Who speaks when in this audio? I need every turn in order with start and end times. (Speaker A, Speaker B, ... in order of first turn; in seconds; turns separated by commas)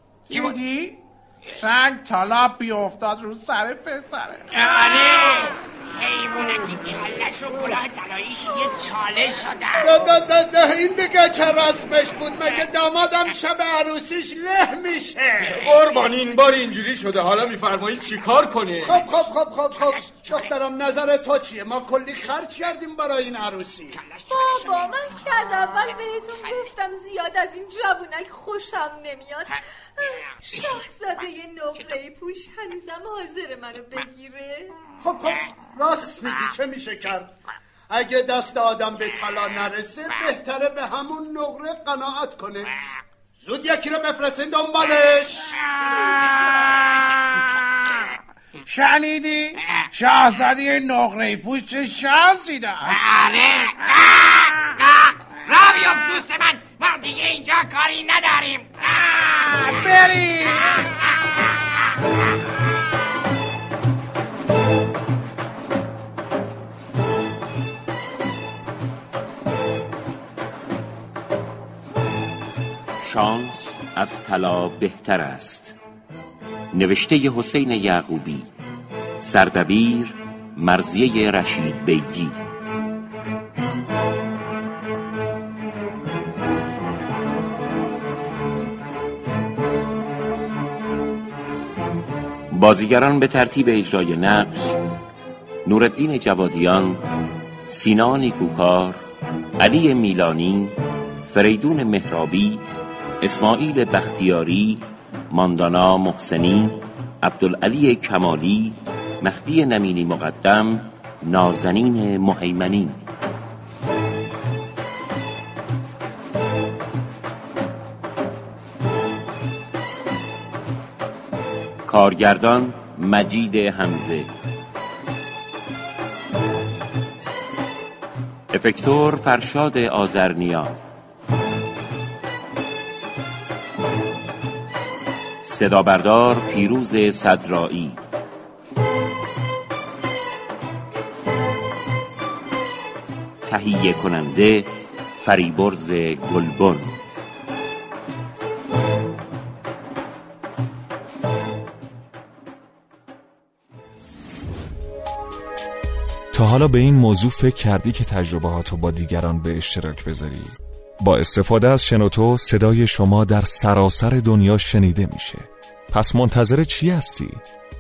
Speaker A: 0.3-4.5, Speaker B: 4.5-9.9, Speaker C: 9.8-15.6, Speaker D: 15.5-18.9, Speaker C: 18.8-24.0, Speaker B: 19.8-20.5, Speaker B: 23.9-25.9, Speaker E: 24.3-34.7, Speaker C: 35.0-37.3, Speaker C: 37.9-42.7, Speaker C: 43.4-45.6, Speaker A: 45.9-48.0, Speaker A: 48.7-53.0, Speaker B: 52.9-59.9, Speaker A: 59.6-61.0, Speaker F: 73.0-75.8, Speaker F: 76.7-78.5, Speaker F: 79.2-82.4, Speaker F: 92.5-94.8, Speaker F: 95.7-97.0, Speaker F: 97.7-99.0, Speaker F: 99.6-102.6, Speaker F: 103.2-113.0, Speaker F: 121.9-124.3, Speaker F: 128.5-130.8, Speaker F: 135.4-138.0, Speaker F: 143.4-147.0, Speaker G: 156.3-167.4